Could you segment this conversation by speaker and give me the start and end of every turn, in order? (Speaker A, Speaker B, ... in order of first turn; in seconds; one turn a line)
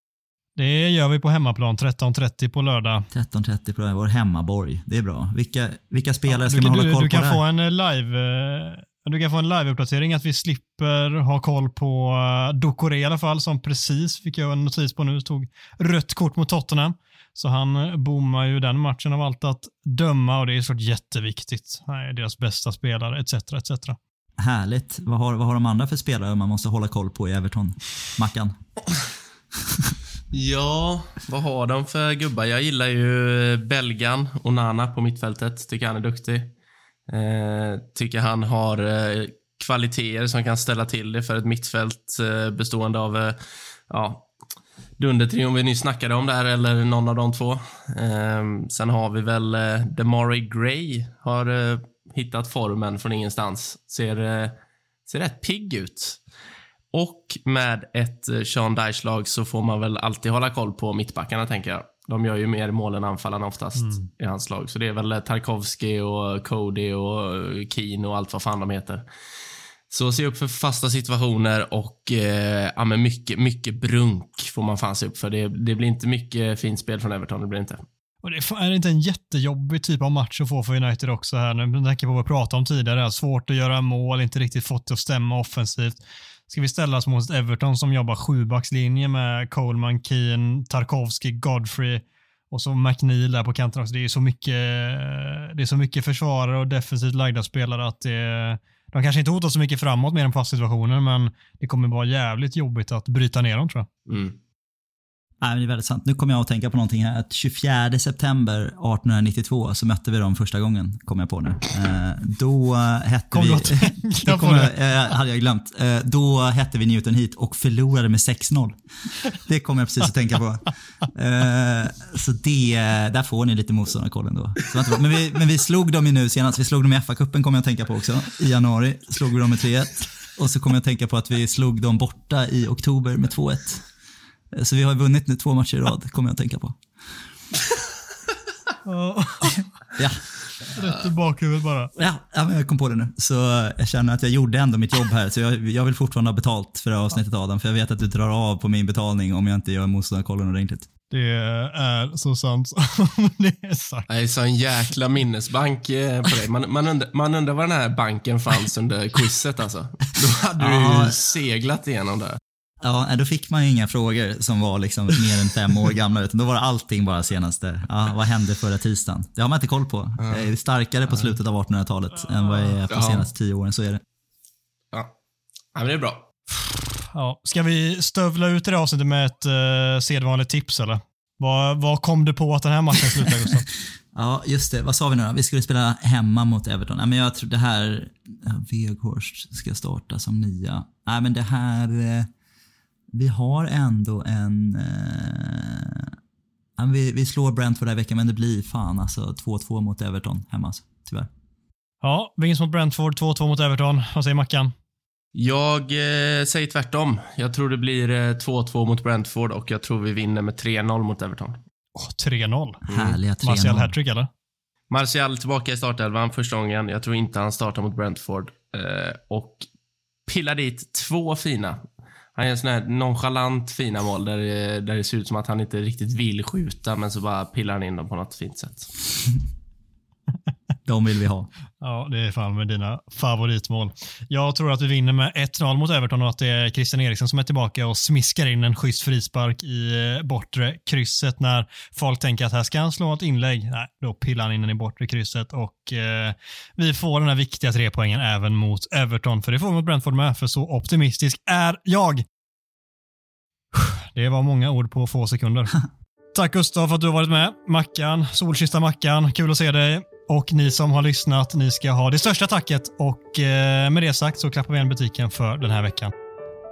Speaker A: 0.6-3.1
Speaker B: 3.1-7.4
Speaker A: 6.3-24.0
Speaker B: 24.4-28.6
Speaker C: 30.3-36.5
Speaker C: 37.1-44.3
Speaker C: 45.0-56.2
Speaker C: 56.9-69.1
Speaker A: 63.8-64.1
Speaker C: 69.9-77.8
Speaker A: 78.2-103.9
Speaker C: 104.1-104.4
Speaker B: 105.4-118.8
Speaker A: 113.3-114.8
Speaker B: 119.3-133.8
Speaker B: 134.5-136.8
Speaker A: 138.9-139.7
Speaker B: 140.0-140.2
Speaker A: 140.7-141.9
Speaker B: 142.0-150.9
Speaker A: 151.1-154.1
Speaker C: 154.1-162.4
Speaker B: 160.6-161.2
Speaker B: 162.8-174.0
Speaker C: 170.2-170.4
Speaker C: 172.9-173.3
Speaker C: 175.7-176.3
Speaker A: 176.5-183.7
Speaker B: 184.1-192.3
Speaker B: 193.1-196.1
Speaker B: 196.8-201.3
Speaker A: 202.0-204.7
Speaker C: 205.3-211.6
Speaker A: 211.9-212.8
Speaker B: 212.9-213.9
Speaker C: 212.9-213.2
Speaker A: 213.4-214.3
Speaker C: 214.9-219.7
Speaker C: 220.3-221.8
Speaker C: 222.3-228.9
Speaker B: 230.9-231.5
Speaker A: 231.8-252.2
Speaker A: 253.7-255.8
Speaker A: 256.3-266.1